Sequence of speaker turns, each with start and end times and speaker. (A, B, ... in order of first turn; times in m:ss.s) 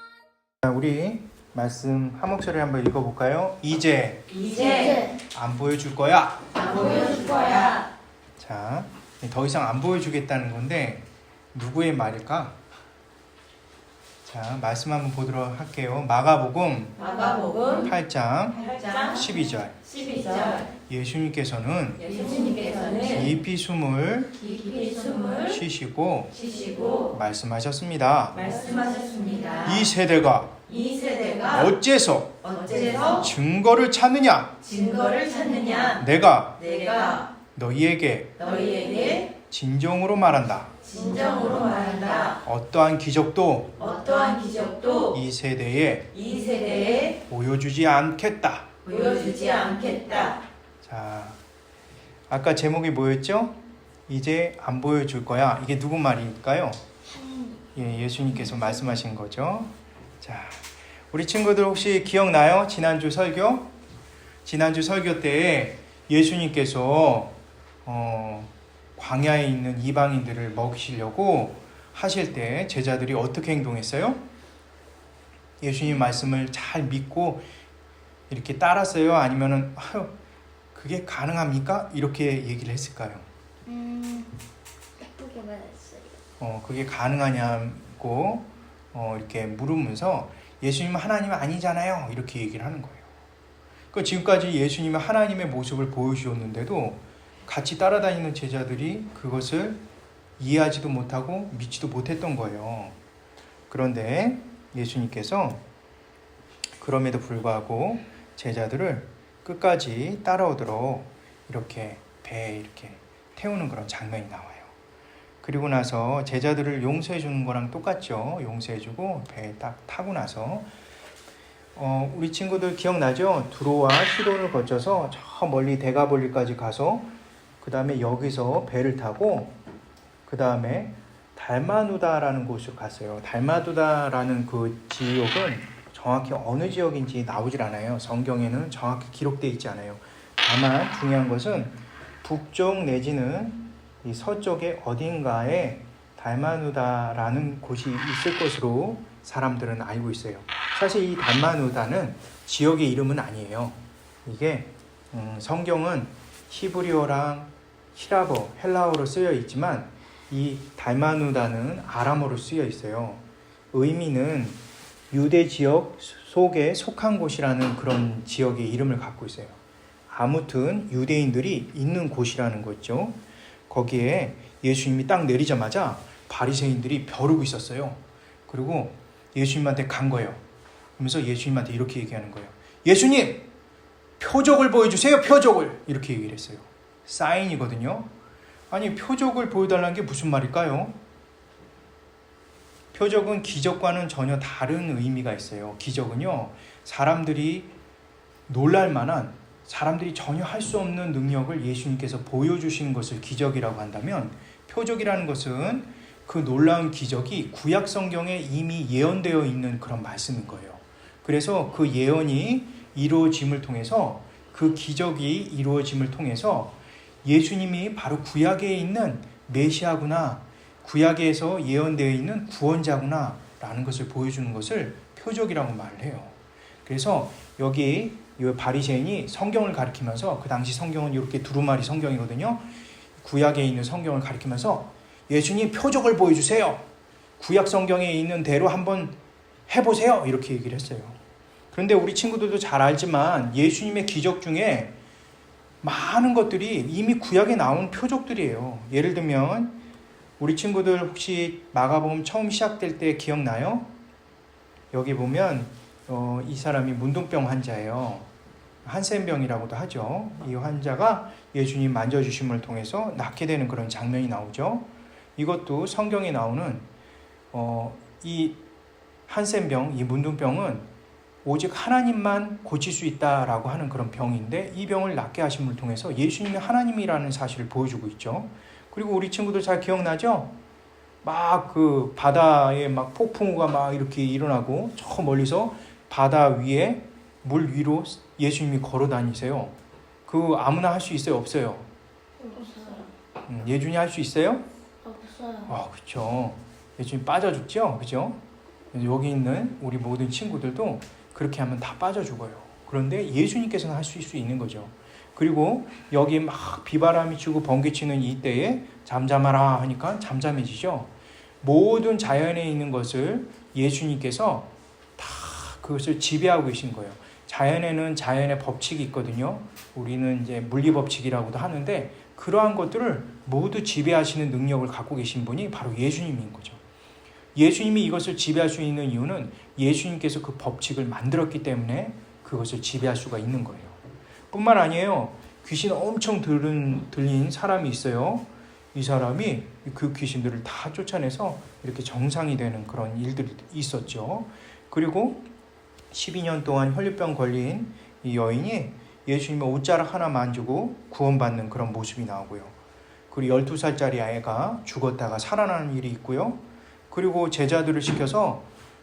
0:00.6-0:04.2 A
0:04.3-0:05.0 B
0:04.6-0:05.2 C
0:05.3-0:06.5 A
0:06.6-0:07.9 B
0:08.4-0:12.6 A
0:14.2-0:17.0 A
0:17.0-0:17.9 B
0:17.8-0:19.8 A
0:18.6-0:19.1 B
0:19.9-0:20.7 B
0:20.9-0:22.1 A
0:22.0-0:23.1 B
0:23.0-0:24.4 A
0:24.4-0:25.5 B
0:25.4-0:26.4 A
0:26.4-0:27.1 B
0:27.1-0:28.6 A
0:28.4-0:29.7 B
0:29.6-0:30.6 A
0:30.7-0:31.5 B
0:31.4-0:32.5 A
0:32.4-0:33.2 B
0:33.0-0:34.6 A
0:34.6-0:36.0 B
0:36.0-0:36.6 A
0:36.6-0:37.3 B
0:37.5-0:38.4 A
0:38.4-0:39.3 B
0:39.5-0:40.7 A
0:40.9-0:42.4 B
0:42.4-0:43.8 A
0:43.8-0:45.1 B
0:45.1-0:46.1 A
0:46.2-0:47.1 B
0:47.2-0:48.7 A
0:48.9-0:50.4 B
0:50.8-0:51.4 A
0:52.3-0:56.8 A
0:57.8-1:03.7 A
1:04.4-1:14.2 A
1:15.6-1:17.5 A
1:18.3-1:20.1 A
1:20.7-1:23.3 A
1:23.7-1:24.3 C
1:25.2-1:26.0 C
1:26.4-1:33.1 A
1:33.9-1:39.8 A
1:40.4-1:43.0 A
1:43.7-1:45.6 A
1:46.8-1:54.7 A
1:55.4-2:00.7 A
2:01.8-2:09.5 A
2:10.3-2:44.6 A
2:45.1-2:49.6 A
2:50.1-2:53.2 A
2:53.7-3:00.4 A
3:01.0-3:03.4 A
3:04.2-3:08.1 A
3:08.7-3:11.0 A
3:12.9-3:17.7 A
3:18.5-3:46.3 A
3:46.9-3:52.7 A
3:53.2-3:56.8 A
3:57.4-3:59.2 A
3:59.7-4:01.2 A
4:01.7-4:05.0 A
4:05.8-4:09.8 A
4:10.4-4:13.9 A
4:14.9-4:18.3 A
4:18.8-4:26.9 A
4:27.5-4:28.6 A
4:29.3-4:30.9 A
4:31.4-4:40.5 A
4:41.2-4:49.8 A
4:50.3-4:51.9 A
4:52.4-4:53.1 C
4:53.5-4:54.7 A
4:55.0-4:55.8 C
4:55.7-4:58.4 A
4:58.9-5:11.1 A
5:11.6-5:26.8 A
5:27.6-5:34.0 A
5:34.5-5:45.4 A
5:46.1-5:52.8 A
5:53.3-5:58.7 A